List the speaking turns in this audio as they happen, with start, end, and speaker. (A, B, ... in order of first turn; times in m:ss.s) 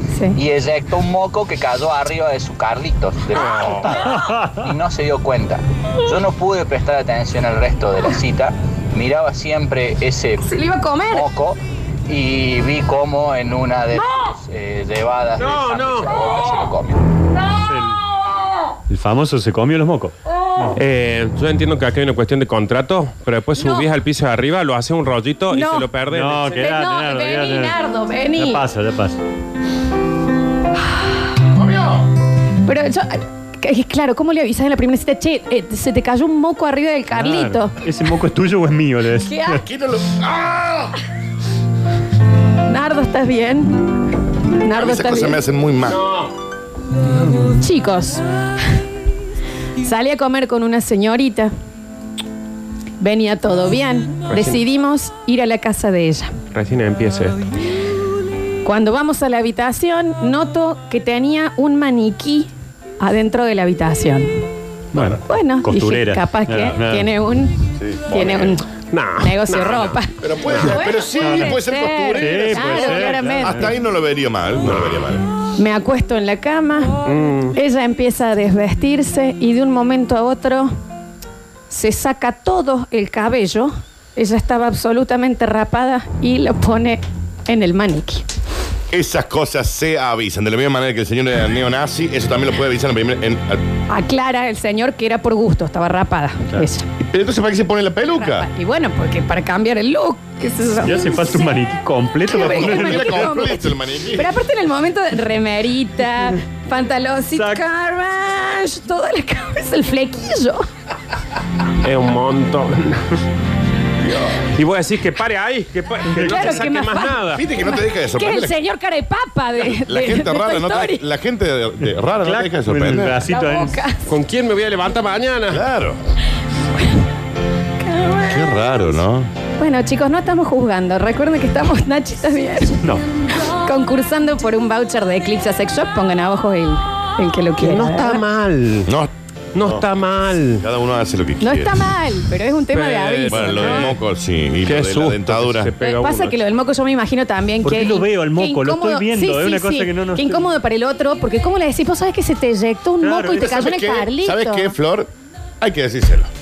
0:00.1-0:00.4 A
0:00.3-0:10.5 B
0:03.4-0:03.9 C
0:04.1-0:04.6 D
0:10.4-0:11.2 A
0:11.1-0:17.0 B
0:13.9-0:14.3 A
0:15.4-0:16.3 C
0:17.7-0:18.0 D
0:18.9-0:20.7 D
0:20.7-0:26.5 C
0:23.6-0:23.9 A
0:25.5-0:25.9 A
0:26.1-0:27.8 D
0:26.5-0:28.6 A
0:28.3-0:29.2 D
0:31.5-0:32.0 E
0:32.6-0:37.7 A
0:37.1-0:39.5 D
0:39.2-0:39.6 A
0:39.5-0:40.9 E
0:42.7-0:43.9 A
0:44.6-0:45.4 A
0:44.7-0:46.0 E
0:45.8-0:46.3 C
0:47.6-0:48.2 A
0:49.8-0:51.5 A
0:53.0-0:56.3 A
0:54.3-0:54.6 C
0:56.5-0:57.4 C
0:58.6-1:04.3 A
1:04.9-1:07.1 D
1:05.2-1:08.6 A
1:07.8-1:08.5 E
1:08.9-1:10.8 C
1:09.2-1:13.6 A
1:10.2-1:15.2 E
1:11.2-1:11.6 D
1:12.2-1:13.7 D
1:14.6-1:15.0 C
1:15.6-1:17.0 A
1:17.0-1:17.6 C
1:17.5-1:20.7 A
1:21.7-1:28.2 A
1:28.9-1:33.6 E
1:33.9-1:36.9 A
1:37.0-1:38.5 E
1:38.1-1:41.4 A
1:40.8-1:43.3 D
1:42.2-1:50.7 A
1:42.3-1:44.3 E
1:47.3-1:47.6 D
1:51.8-1:53.2 C
1:54.0-1:54.4 E
1:54.5-1:57.4 C
1:56.2-2:01.0 A
1:57.3-1:58.5 E
1:59.8-2:03.2 E
2:02.2-2:03.8 D
2:03.3-2:04.1 A
2:04.0-2:05.6 C
2:05.5-2:06.0 E
2:07.8-2:08.6 A
2:08.2-2:09.3 E
2:09.6-2:12.8 A
2:13.4-2:18.2 A
2:17.6-2:18.9 C
2:19.5-2:20.6 C
2:20.6-2:21.8 E
2:21.4-2:23.9 A
2:22.7-2:24.0 C
2:23.3-2:25.7 E
2:24.6-2:26.4 C
2:25.8-2:34.8 A
2:27.6-2:30.5 D
2:33.0-2:33.6 D
2:33.3-2:35.1 E
2:35.6-2:36.3 E